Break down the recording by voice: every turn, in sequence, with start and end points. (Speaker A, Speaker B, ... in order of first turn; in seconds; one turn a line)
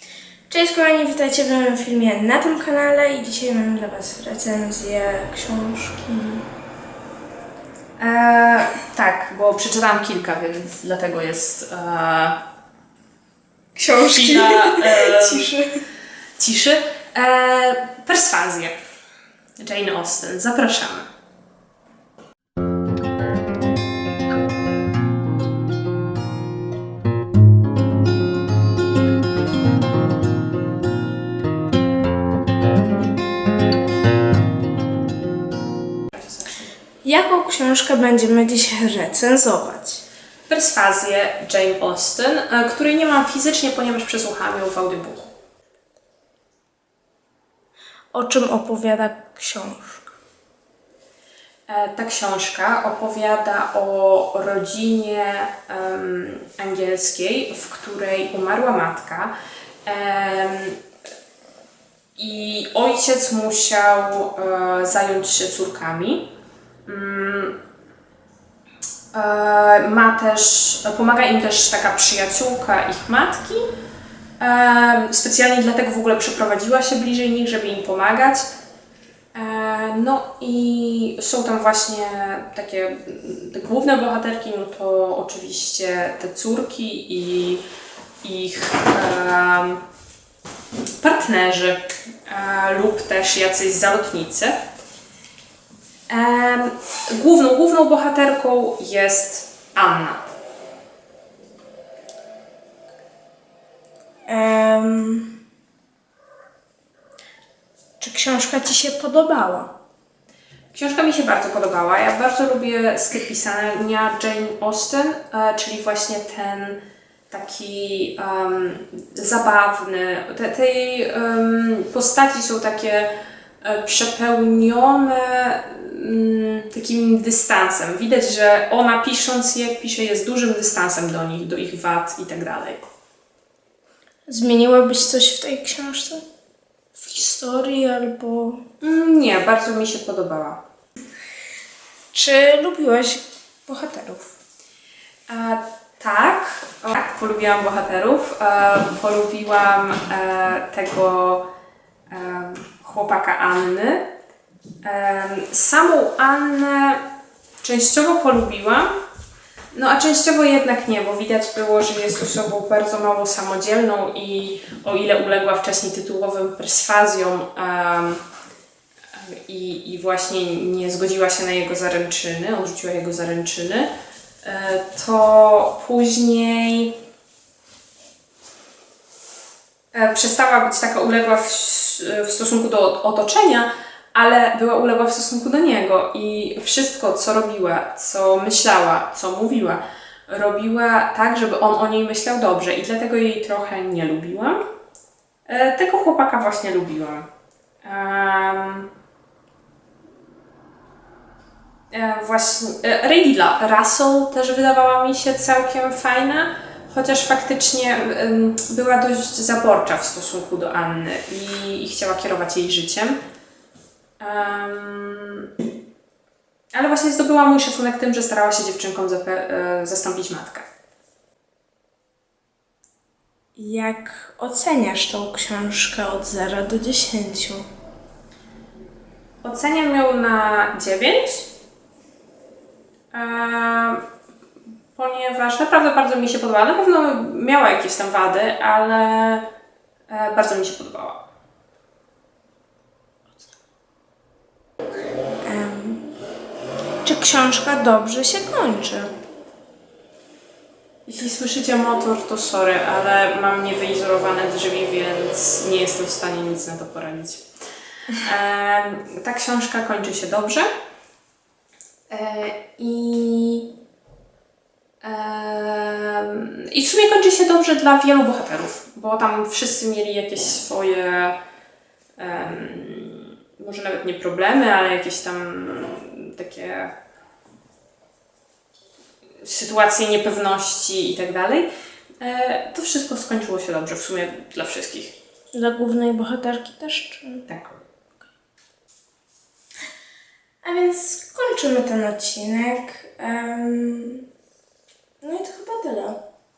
Speaker A: 0.5-6.5
Speaker B: 8.0-12.4
Speaker A: 13.8-15.8
Speaker B: 14.0-15.5
Speaker B: 16.4-18.8
Speaker B: 19.6-21.1
Speaker B: 36.1-36.7
Speaker A: 37.0-40.0
Speaker B: 40.5-45.3
Speaker A: 48.1-50.1
Speaker B: 51.7-59.3
Speaker B: 59.9-60.8
Speaker B: 62.2-66.3
Speaker B: 66.9-67.5
Speaker B: 69.1-73.7
Speaker B: 74.4-78.5
Speaker B: 79.3-87.6
Speaker B: 88.2-89.8
Speaker B: 91.0-94.6
Speaker B: 96.1-100.3
Speaker A: 104.3-105.4
Speaker A: 108.0-109.7
Speaker B: 110.7-123.1
Speaker B: 123.6-132.8
Speaker A: 134.3-136.2
Speaker A: 136.9-138.6
Speaker B: 138.8-140.6
Speaker A: 142.1-144.4
Speaker B: 145.3-151.5
Speaker B: 152.1-154.1
Speaker B: 154.8-157.0
Speaker B: 157.6-159.0
Speaker B: 159.7-168.2
Speaker B: 169.1-173.9
Speaker B: 174.4-177.0
Speaker B: 179.9-194.6
Speaker B: 195.5-197.3
Speaker B: 197.8-198.9
Speaker B: 201.9-213.2
Speaker B: 214.2-215.5
Speaker B: 216.7-220.7
Speaker A: 223.6-227.7
Speaker B: 229.4-231.5
Speaker B: 233.1-234.0
Speaker B: 234.9-239.5
Speaker B: 240.1-241.2
Speaker A: 245.4-246.1
Speaker A: 247.0-249.1
Speaker B: 251.1-257.4
Speaker B: 258.2-260.7
Speaker B: 262.1-263.7
Speaker B: 265.0-271.4
Speaker B: 272.2-276.9
Speaker B: 279.4-281.7
Speaker B: 282.2-285.1
Speaker A: 285.5-287.4
Speaker B: 287.5-287.8
Speaker A: 290.6-294.3
Speaker A: 295.2-296.2